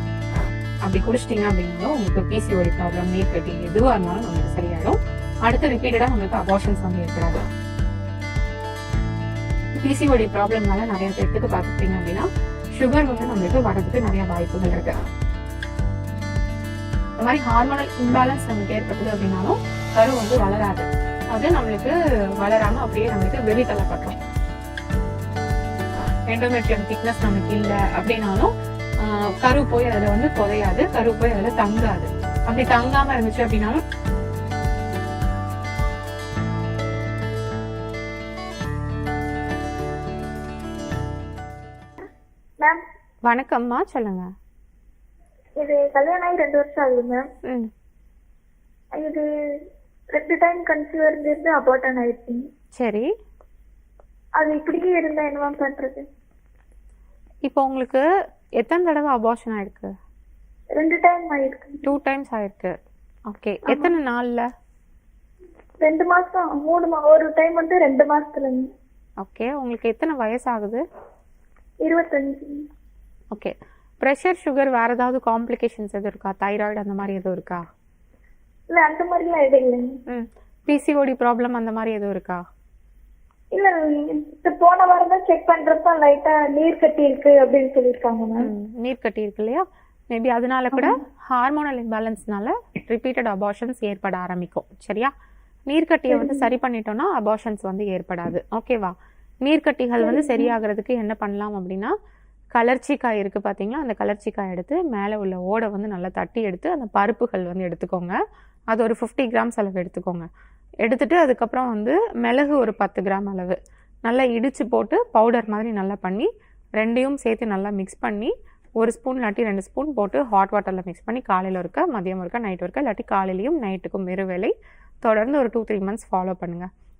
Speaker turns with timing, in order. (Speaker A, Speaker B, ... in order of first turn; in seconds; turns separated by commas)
Speaker A: 0.8-7.4, Speaker A: 9.8-14.9, Speaker A: 17.2-24.2, Speaker A: 26.3-28.5, Speaker A: 29.1-33.8, Speaker A: 43.3-44.3, Speaker B: 45.6-47.2, Speaker B: 48.9-49.2, Speaker B: 50.1-52.4, Speaker A: 52.8-53.1, Speaker B: 54.4-56.0, Speaker A: 57.5-58.0, Speaker A: 58.6-59.9, Speaker B: 60.7-61.8, Speaker A: 61.8-62.7, Speaker A: 63.3-64.4, Speaker B: 65.8-68.7, Speaker A: 69.2-70.8, Speaker B: 71.8-72.6, Speaker A: 73.3-77.6, Speaker B: 78.7-79.9, Speaker A: 80.1-82.4, Speaker B: 83.5-88.5, Speaker A: 88.4-95.1, Speaker A: 95.7-98.9, Speaker A: 99.4-101.9, Speaker A: 102.5-108.1, Speaker A: 108.7-110.3, Speaker A: 110.8-116.3, Speaker A: 116.8-126.7